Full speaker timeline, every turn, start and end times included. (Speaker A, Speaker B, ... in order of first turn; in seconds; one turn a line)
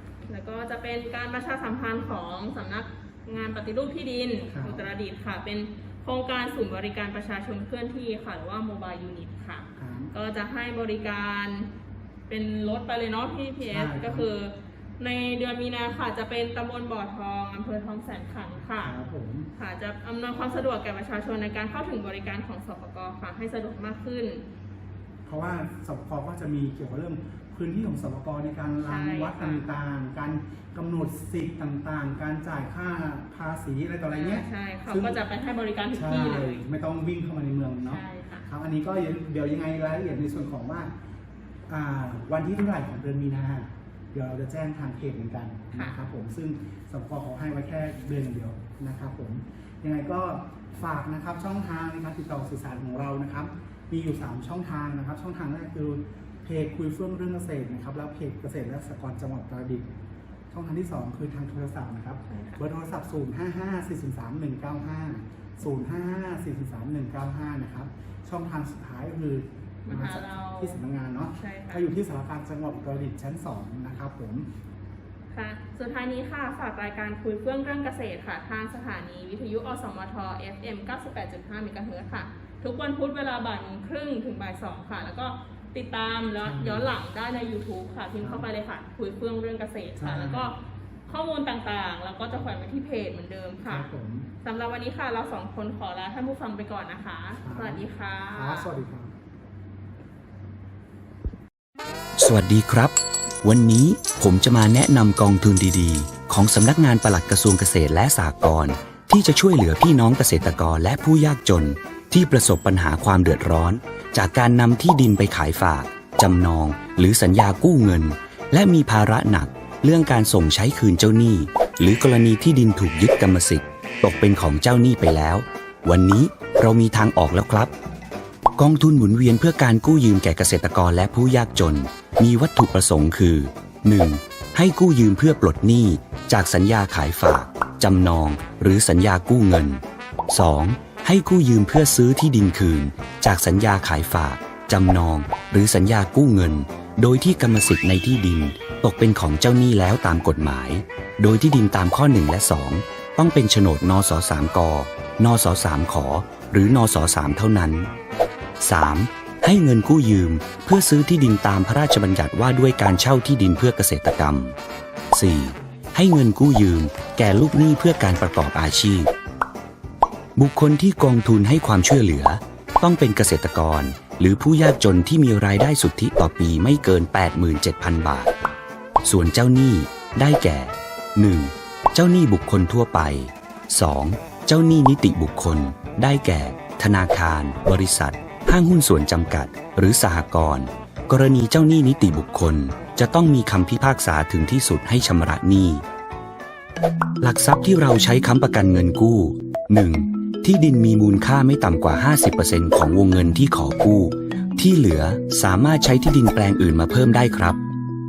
Speaker A: 0.3-11.7
Speaker B: 4.5-4.9
Speaker B: 9.8-10.1
Speaker A: 12.3-18.9
Speaker B: 13.7-14.3
Speaker B: 18.8-19.5
Speaker A: 19.6-24.4
Speaker B: 25.3-35.2
Speaker A: 28.8-29.7
Speaker A: 34.1-36.6
Speaker B: 35.9-40.9
Speaker A: 37.9-38.5
Speaker B: 41.7-59.9
Speaker B: 60.5-74.5
Speaker A: 62.3-62.6
Speaker A: 69.9-70.8
Speaker A: 71.4-71.9
Speaker A: 75.3-90.6
Speaker B: 86.4-86.9
Speaker B: 88.2-88.5
Speaker B: 90.0-90.5
Speaker A: 91.1-93.9
Speaker B: 93.7-94.3
Speaker A: 94.4-98.7
Speaker B: 97.4-99.1
Speaker C: 102.2-127.7
Speaker C: 128.6-157.9
Speaker C: 158.6-164.6
Speaker C: 165.1-169.1
Speaker C: 170.4-178.3
Speaker C: 179.0-195.8
Speaker C: 197.2-207.6